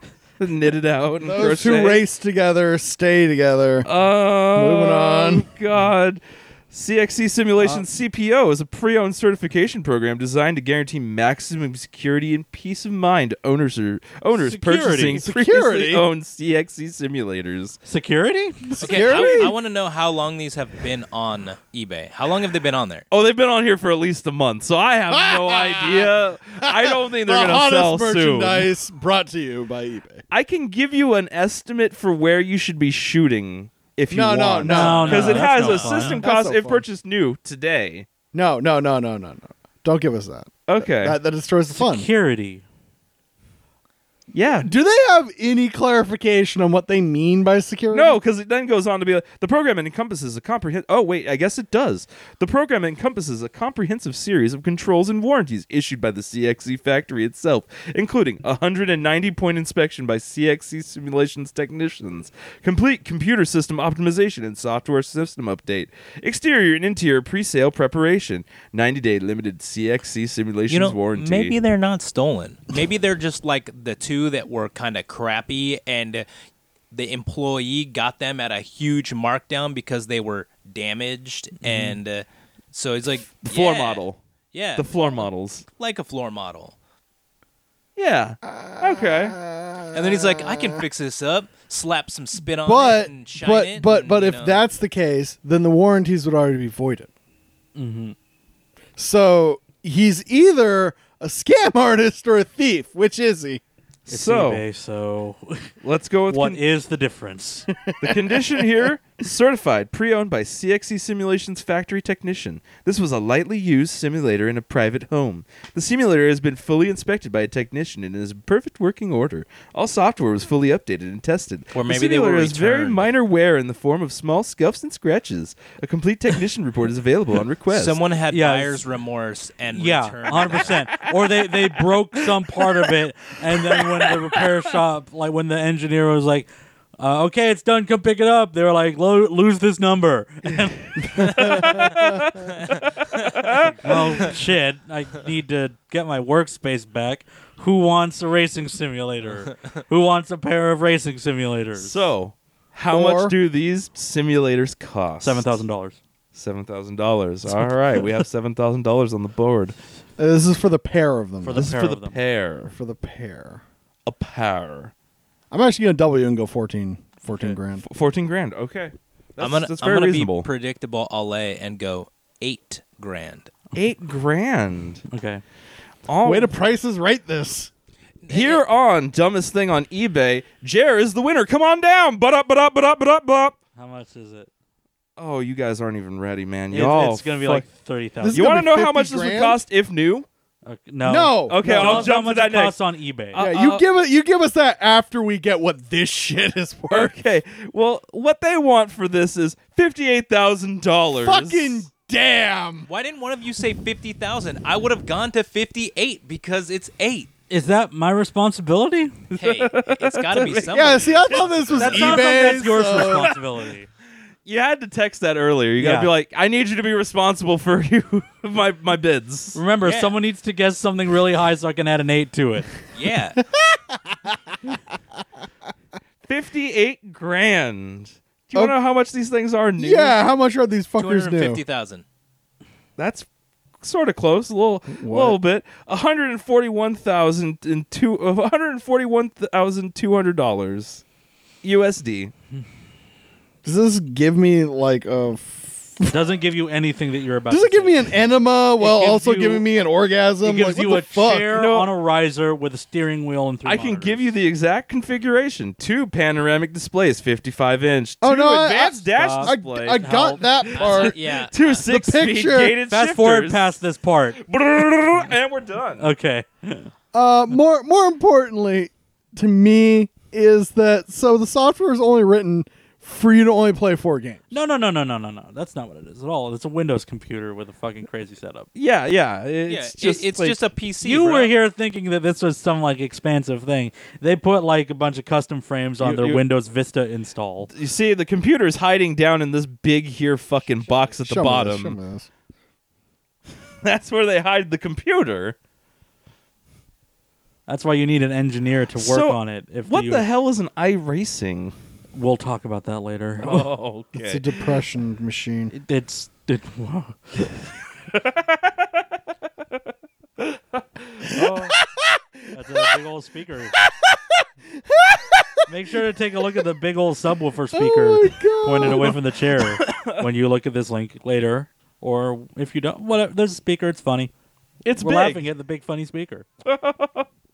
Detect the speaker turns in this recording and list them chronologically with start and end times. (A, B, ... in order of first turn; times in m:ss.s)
0:00.4-0:02.0 A
0:01.2-0:03.9 B
0:03.8-0:17.8 A
0:04.5-0:05.5 B
0:14.3-0:15.2 C
0:15.1-0:16.1 B
0:17.8-0:18.8 C
0:18.7-0:19.6 B
0:18.8-0:23.0 D
0:19.0-0:19.5 A
0:23.1-0:28.7 A
0:25.1-0:30.2 B
0:30.3-0:38.0 A
0:34.1-0:36.8 B
0:34.6-0:36.2 C
0:35.1-0:36.2 D
0:38.3-0:42.1 B
0:40.7-0:41.2 A
0:41.7-0:42.6 C
0:44.3-0:44.7 A
0:44.6-0:48.2 B
0:47.9-1:11.5 A
1:10.7-1:16.2 D
1:16.9-1:26.8 D
1:21.6-1:21.9 C
1:23.4-1:24.2 A
1:24.8-1:25.6 A
1:28.0-1:29.4 A
1:28.4-1:30.8 B
1:29.9-1:34.6 D
1:32.6-1:37.1 B
1:37.8-1:38.1 C
1:39.0-1:43.6 B
1:44.1-1:44.6 A
1:44.1-1:45.7 C
1:45.8-1:46.6 A
1:46.3-1:47.7 C
1:47.8-1:48.7 B
1:48.0-2:08.0 A
2:01.7-2:03.1 D
2:07.7-2:10.8 D
2:08.3-2:08.8 C
2:09.7-2:16.5 C
2:13.8-2:14.1 A
2:17.0-2:21.9 C
2:21.2-2:21.9 B
2:21.2-2:24.0 A
2:23.6-2:32.1 C
2:31.8-2:35.5 A
2:32.9-2:33.3 B
2:35.2-2:36.0 C
2:36.3-2:39.8 A
2:40.2-2:41.7 B
2:41.4-2:42.2 C
2:41.5-2:42.7 A
2:42.7-2:43.6 B
2:44.0-2:44.9 A
2:45.5-2:47.8 B
2:47.8-2:50.5 A
2:49.4-2:53.5 D
2:53.7-2:55.0 A
2:55.1-2:55.4 C
2:56.1-2:56.6 A
2:56.2-2:57.7 B
2:58.2-2:58.6 D
2:58.3-3:03.6 A
3:03.8-3:04.5 C
3:05.2-3:07.6 A
3:06.7-3:08.6 C
3:08.2-3:09.6 B
3:08.3-3:10.3 A
3:10.6-3:13.4 C
3:11.0-3:12.1 B
3:11.5-3:12.8 A
3:13.3-3:13.8 A
3:13.4-3:17.1 B
3:16.9-3:21.8 A
3:21.2-3:22.9 B
3:22.9-3:27.3 D
3:27.5-3:29.3 C
3:29.3-3:32.2 A
3:29.4-3:32.3 D
3:30.7-3:33.3 B
3:31.8-3:33.9 C
3:32.9-3:33.3 A
3:34.4-3:39.6 A
3:35.8-3:36.1 C
3:39.5-3:42.7 C
3:39.8-3:40.1 D
3:42.9-3:43.4 D
3:43.5-3:44.7 B
3:46.3-3:50.2 A
3:49.8-3:51.6 B
3:51.0-3:52.0 D
3:53.0-3:53.3 A
3:53.8-4:01.0 A
3:54.9-3:55.4 B
4:01.6-4:02.3 A
4:03.6-4:06.1 B
4:06.0-4:08.1 C
4:07.5-4:11.6 B
4:08.8-4:09.6 C
4:10.4-4:14.3 C
4:11.5-4:11.9 A
4:13.6-4:20.1 A
4:18.2-4:21.2 B
4:19.2-4:20.5 C
4:20.7-4:23.7 A
4:20.7-4:21.9 D
4:21.8-4:22.8 B
4:22.9-4:24.4 C
4:24.4-4:26.1 A
4:26.0-4:26.9 C
4:27.1-4:34.5 B
4:34.5-4:38.7 C
4:38.7-4:40.6 A
4:39.7-4:41.5 D
4:41.0-4:47.7 C
4:46.0-4:46.4 A
4:47.7-4:52.0 A
4:51.2-4:52.3 B
4:53.8-4:55.6 A
4:57.7-5:00.2 C
4:59.0-5:01.7 A
5:02.1-5:03.7 C
5:03.4-5:04.4 A
5:04.1-5:05.7 B
5:05.7-5:07.6 C
5:08.1-5:08.6 A
5:10.4-5:11.8 A
5:12.5-5:13.7 C
5:14.7-5:15.6 B
5:15.7-5:24.3 C
5:17.7-5:19.2 B
5:18.8-5:19.1 A
5:19.6-5:20.2 A
5:24.8-5:25.4 A
5:25.0-5:26.4 C
5:26.6-5:27.3 A